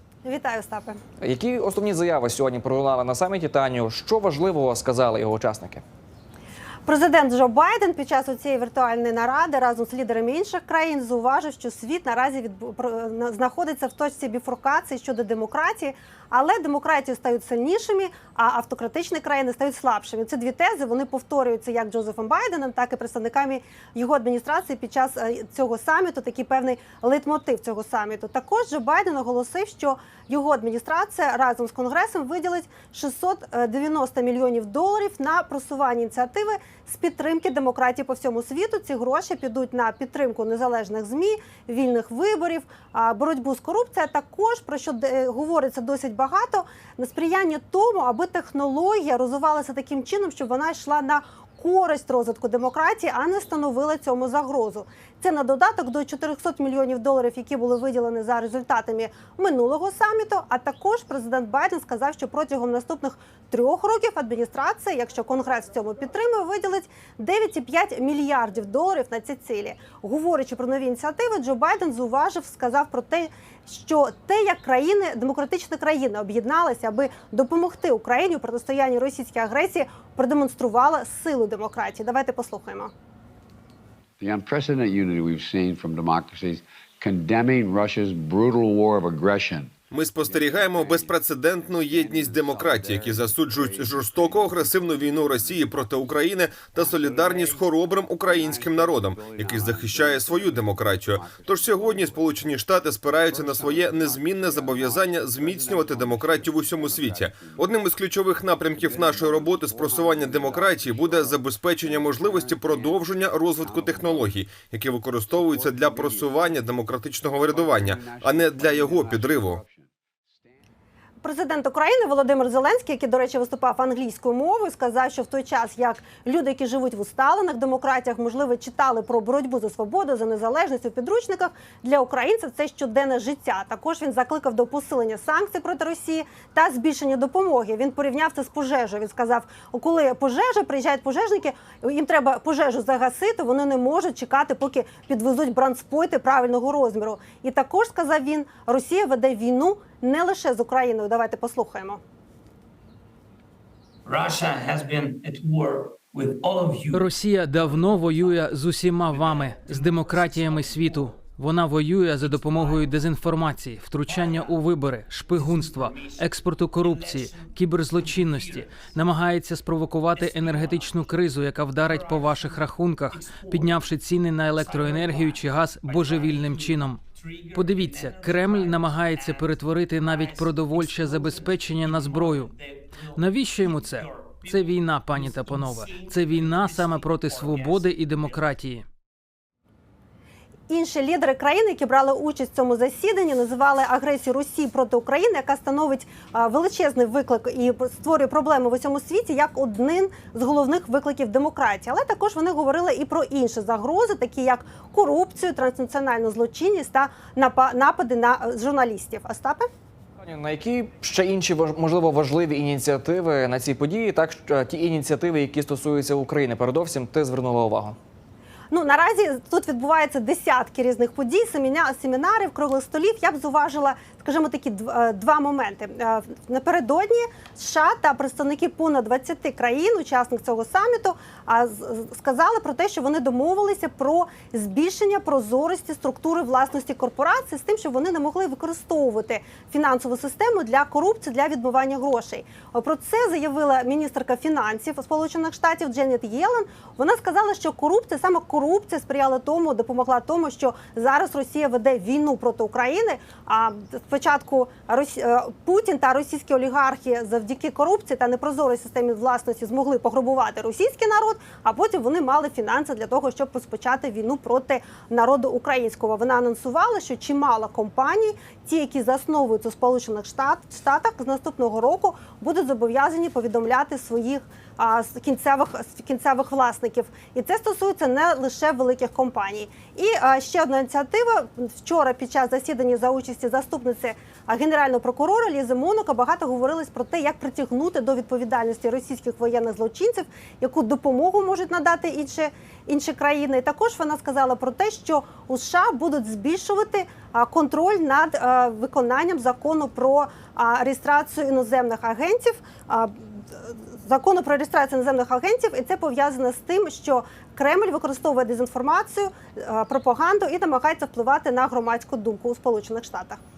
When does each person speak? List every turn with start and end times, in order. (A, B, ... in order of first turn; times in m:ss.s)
0:00.2-0:01.0 A
0:01.2-0:05.8 B
0:06.8-1:22.9 A
1:24.2-1:47.8 C
1:29.9-1:59.6 D
1:48.6-1:54.4 C
1:55.3-2:00.6 C
2:01.2-2:32.0 A
2:34.0-2:38.5 E
2:36.9-2:57.0 F
2:39.0-2:41.2 E
2:42.2-2:43.0 E
2:44.1-2:44.6 E
2:45.3-2:49.0 E
2:50.1-2:51.1 E
2:51.8-2:53.9 E
2:54.5-3:08.5 E
2:57.5-3:02.5 F
3:03.1-3:08.8 F
3:10.7-3:29.7 A
3:30.2-3:38.0 B
3:38.7-5:13.4 A